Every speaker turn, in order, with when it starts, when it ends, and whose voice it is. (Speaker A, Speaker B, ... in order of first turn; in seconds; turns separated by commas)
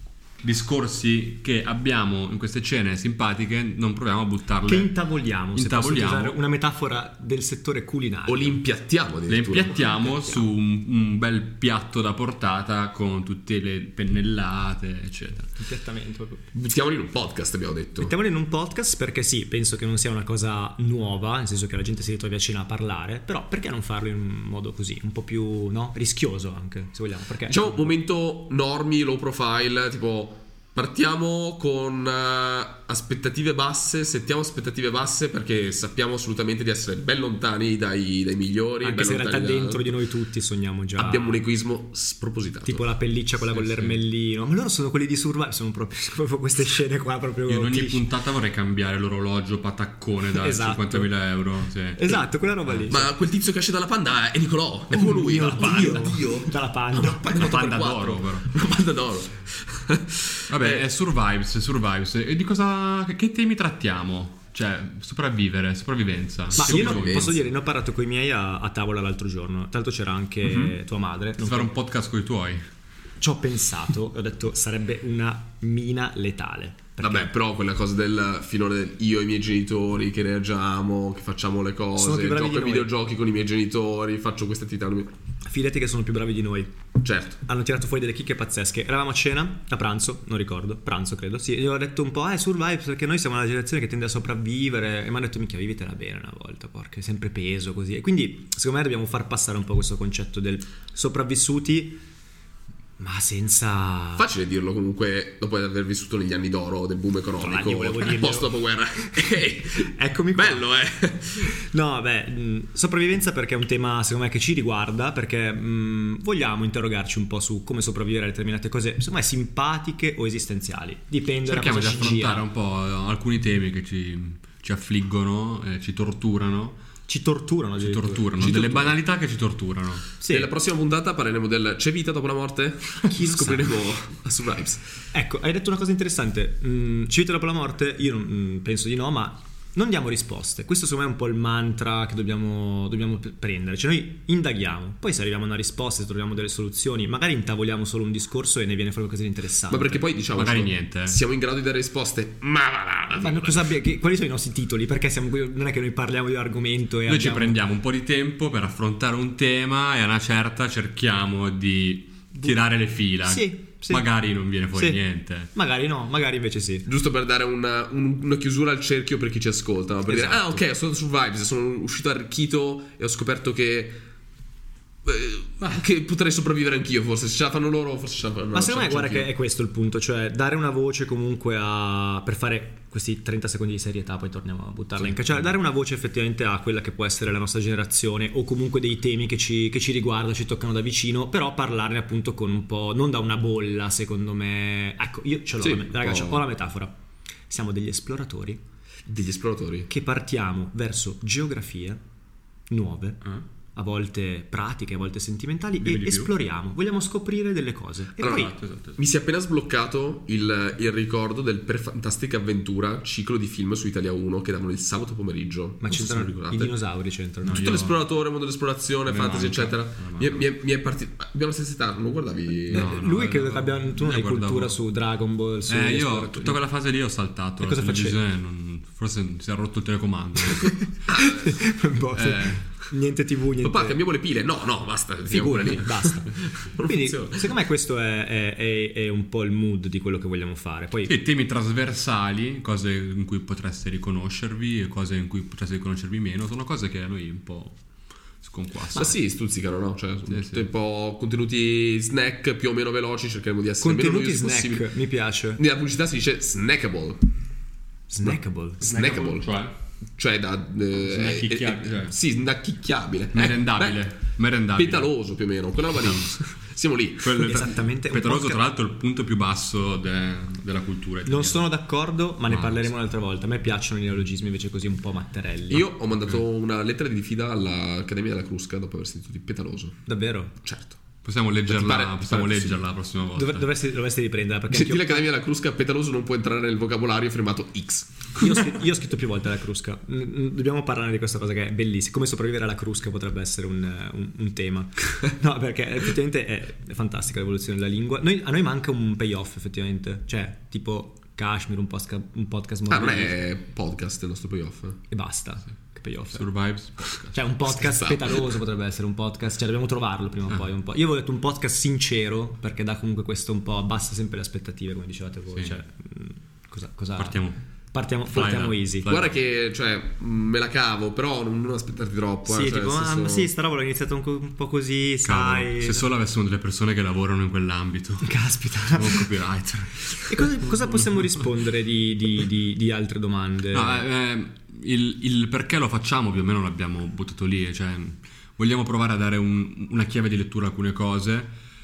Speaker A: 0.4-5.0, Speaker B: 4.6-8.6, Speaker A: 5.5-6.4, Speaker C: 8.3-10.1, Speaker A: 9.3-15.5, Speaker B: 15.6-16.5, Speaker C: 16.5-18.1, Speaker B: 18.0-27.9, Speaker C: 27.5-40.0, Speaker B: 38.8-41.4, Speaker C: 41.0-42.9, Speaker B: 42.6-48.1, Speaker A: 43.5-44.0, Speaker A: 47.5-52.9, Speaker B: 50.4-51.2, Speaker B: 52.0-53.1, Speaker C: 52.9-60.9, Speaker B: 54.9-57.5, Speaker A: 57.3-58.5, Speaker A: 60.5-67.4, Speaker C: 66.5-67.4, Speaker B: 66.5-71.7, Speaker C: 70.4-70.8, Speaker A: 71.4-72.6, Speaker B: 73.2-77.3, Speaker C: 77.0-85.1, Speaker B: 82.0-82.9, Speaker B: 85.5-86.7, Speaker C: 87.0-87.4, Speaker B: 87.4-102.0, Speaker B: 103.0-104.3, Speaker C: 104.2-111.5, Speaker B: 107.4-110.7, Speaker B: 111.5-122.5, Speaker A: 121.5-126.8, Speaker B: 127.1-128.2, Speaker A: 127.8-130.0, Speaker C: 128.4-129.0, Speaker B: 130.2-130.5, Speaker C: 130.3-134.8, Speaker B: 133.1-133.7, Speaker B: 135.1-150.1, Speaker C: 149.7-153.7, Speaker A: 150.3-151.2, Speaker B: 153.1-157.6, Speaker A: 157.1-165.5, Speaker B: 163.2-166.9, Speaker C: 166.9-174.0, Speaker B: 170.1-170.6, Speaker C: 175.1-179.3, Speaker B: 178.5-197.0, Speaker C: 195.6-196.5, Speaker B: 197.5-198.6, Speaker C: 199.1-199.9, Speaker B: 199.9-202.0, Speaker B: 202.7-203.2, Speaker B: 203.7-208.5, Speaker A: 205.8-206.3, Speaker A: 208.2-209.0, Speaker C: 208.2-216.7, Speaker B: 215.8-217.6, Speaker A: 217.4-218.0, Speaker C: 217.5-222.9, Speaker A: 219.1-220.4, Speaker A: 222.7-224.8, Speaker B: 222.7-226.6, Speaker A: 225.7-230.9, Speaker B: 227.6-228.2, Speaker B: 230.5-234.0, Speaker C: 231.1-231.5, Speaker A: 232.1-232.7, Speaker C: 233.6-237.5, Speaker B: 235.3-241.2, Speaker A: 241.1-247.8, Speaker A: 248.4-249.1, Speaker C: 248.9-254.9, Speaker A: 250.3-250.7, Speaker B: 253.8-255.6, Speaker C: 255.6-257.2, Speaker B: 258.1-258.9, Speaker C: 258.2-259.5, Speaker A: 258.8-259.7, Speaker C: 260.2-264.1, Speaker A: 261.1-262.1, Speaker A: 263.3-265.1, Speaker C: 264.7-267.6, Speaker A: 265.9-266.4, Speaker A: 267.2-271.6, Speaker B: 267.4-268.6, Speaker B: 271.2-275.9, Speaker A: 272.5-272.9, Speaker C: 275.7-280.0, Speaker B: 280.1-280.6, Speaker C: 280.6-281.0, Speaker A: 281.2-283.7, Speaker C: 281.7-282.8, Speaker B: 283.3-285.3, Speaker C: 284.7-288.5, Speaker B: 288.4-303.4, Speaker C: 302.9-305.0, Speaker B: 305.1-306.5, Speaker A: 306.3-307.4, Speaker B: 307.3-319.1, Speaker C: 307.7-308.6, Speaker A: 317.2-317.6, Speaker A: 318.3-319.4, Speaker C: 319.1-323.5, Speaker B: 322.4-326.1, Speaker A: 325.2-328.3, Speaker B: 328.2-329.4, Speaker A: 328.9-330.7, Speaker B: 330.2-334.0, Speaker A: 333.7-341.5